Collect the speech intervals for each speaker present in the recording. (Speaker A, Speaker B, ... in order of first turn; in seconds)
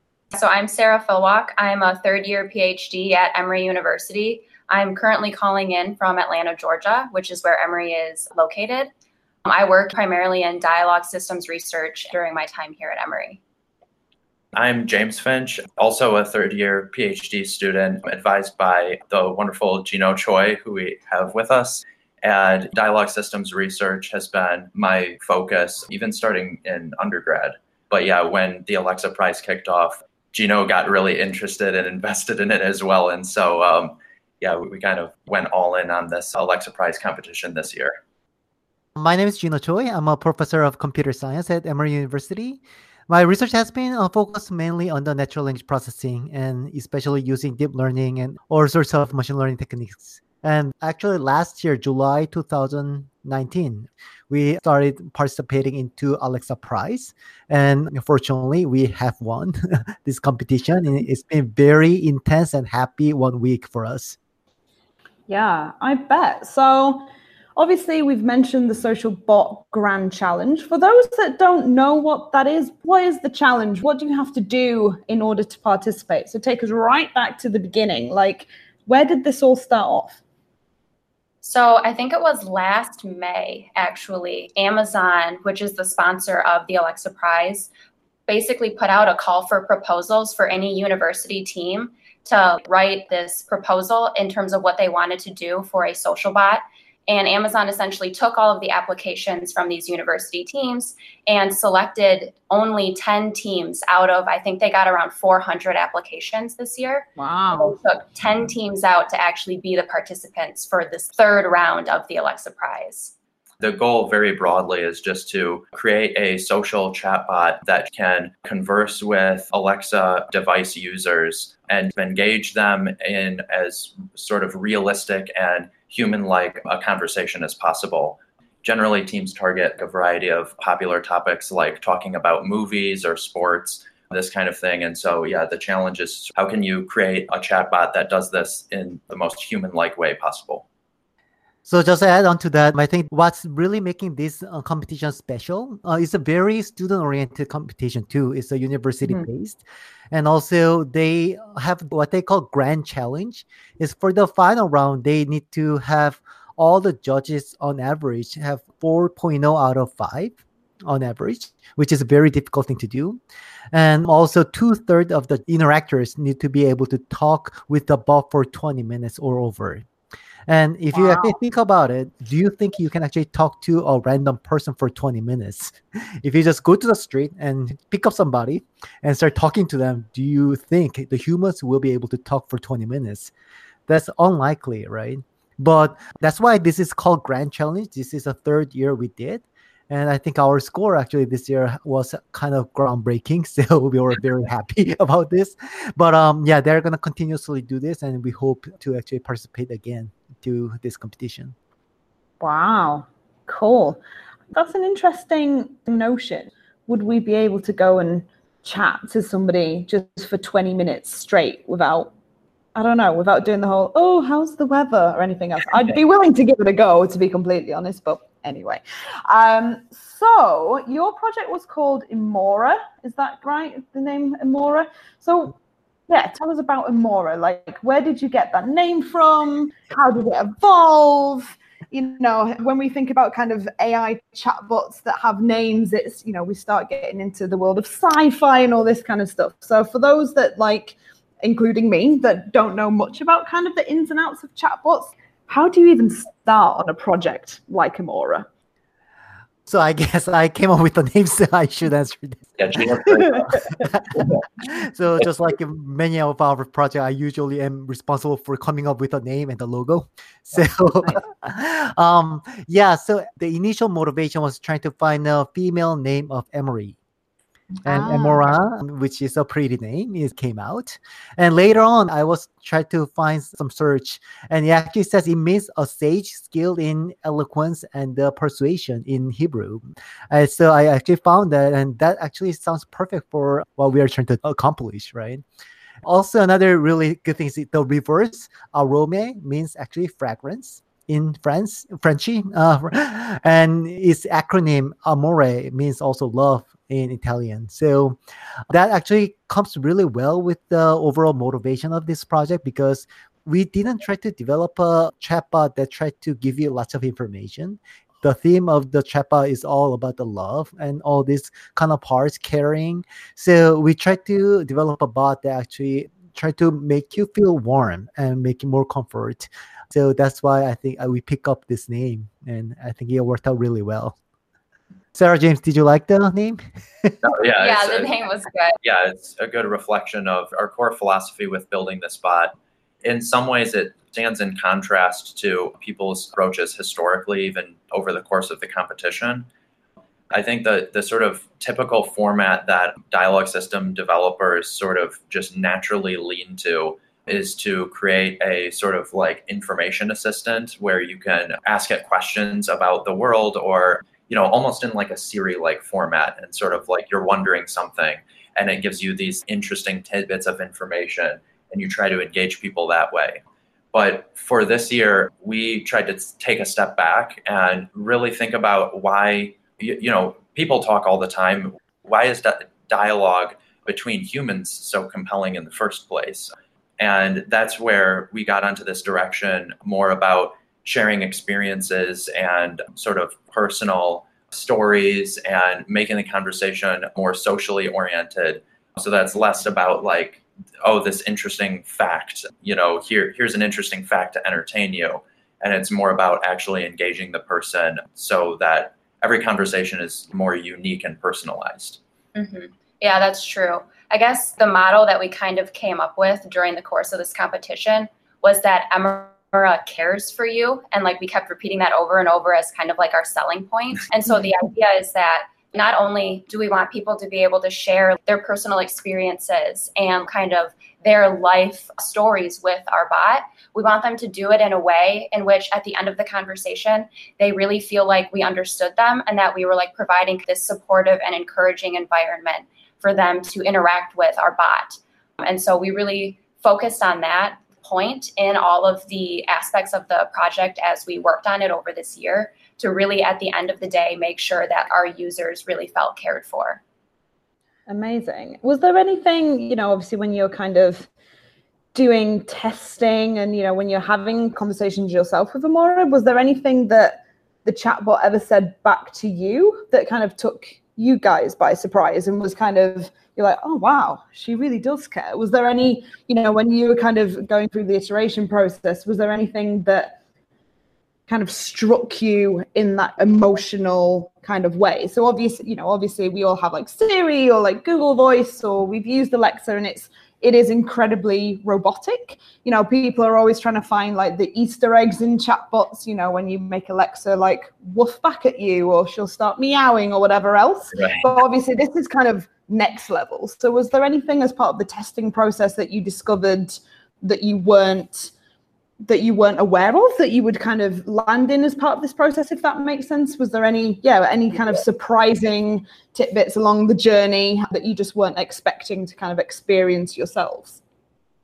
Speaker A: 0.3-8.9, 9.4-13.4, 81.4-87.7, 88.3-113.1, 327.6-328.8, 402.4-446.8
Speaker B: 14.5-38.0, 113.6-140.7, 252.6-254.4, 327.2-328.2, 328.8-339.5, 340.3-363.4, 363.9-402.0, 490.9-491.3
Speaker C: 39.0-64.2, 141.7-163.2, 163.7-169.9, 170.5-183.3, 183.9-201.6, 249.7-267.0, 267.9-285.4, 286.1-298.2, 298.7-324.2, 325.1-327.1
Speaker D: 65.3-80.2, 107.2-107.8, 170.9-171.4, 202.4-204.0, 204.5-212.1, 212.8-225.6, 226.1-248.5, 267.8-268.5, 447.9-451.1, 451.9-470.2, 471.3-498.3, 499.0-510.8